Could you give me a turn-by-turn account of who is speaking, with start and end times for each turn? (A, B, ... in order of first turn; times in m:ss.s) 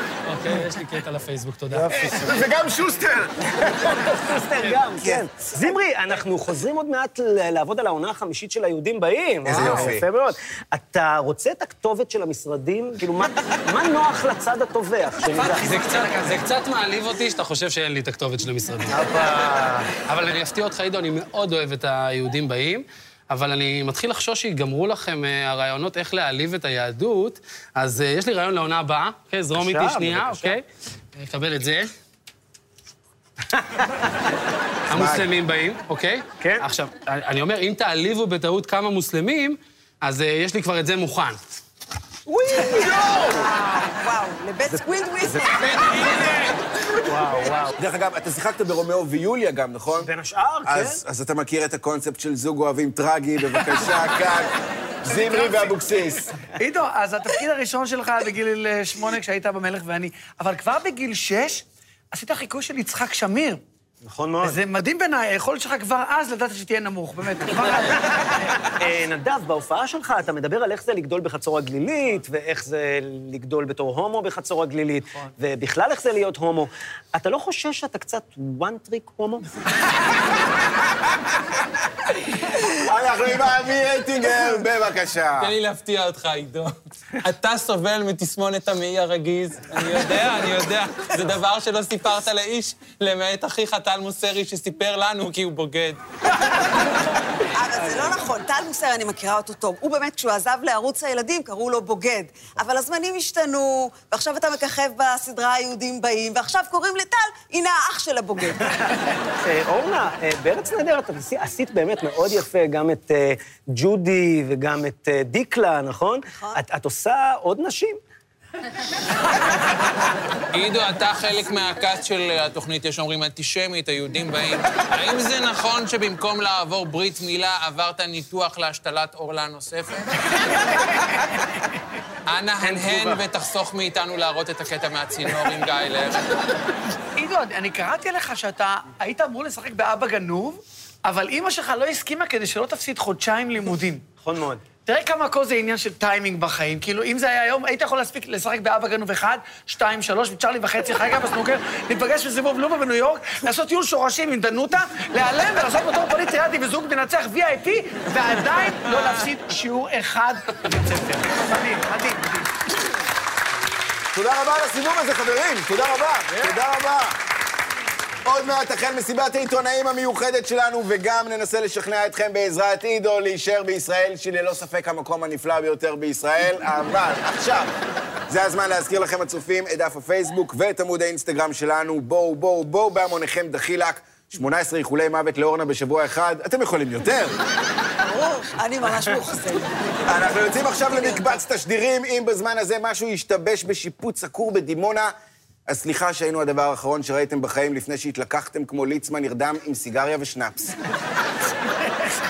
0:00.3-0:01.9 A
0:01.7-0:02.4 B
0:02.0-0:04.1 C
0:03.9-0:15.8 B
0:05.0-0:05.3 C
0:09.4-0:10.0 C
0:09.5-0:09.9 A
0:15.3-0:16.4 D
0:15.5-0:19.1 A
0:18.9-0:19.9 B
0:20.1-0:30.6 A
0:29.6-0:30.6 B
0:31.2-0:31.9 A
0:33.5-0:34.1 B
0:34.9-0:41.4 A
0:34.9-0:35.3 C
0:36.4-0:36.7 B
0:42.5-0:46.1 E
0:42.5-0:43.0 B
0:42.7-0:43.5 C
0:45.6-0:46.6 F
0:47.0-0:47.8 B
0:47.8-0:50.1 C
0:50.0-0:51.0 B
0:50.7-0:56.3 C
0:55.1-0:55.5 D
0:56.6-1:03.6 D
1:04.0-1:04.6 B
1:04.4-1:08.2 D
1:07.7-1:08.0 B
1:08.8-1:19.4 B
1:22.4-1:25.5 C
1:25.4-1:36.0 F
1:37.6-1:48.7 E
1:49.4-1:58.0 B
1:56.4-1:56.6 E
2:00.5-2:10.4 F
2:12.3-2:16.4 F
2:12.6-2:13.2 B
2:17.2-2:24.1 D
2:24.2-2:24.7 B
2:24.8-2:42.6 D
2:44.1-2:47.2 C
2:48.2-2:57.7 C
2:58.3-3:07.4 C
3:08.0-3:10.3 E
3:10.1-3:15.1 C
3:10.9-3:11.2 E
3:15.7-3:20.8 C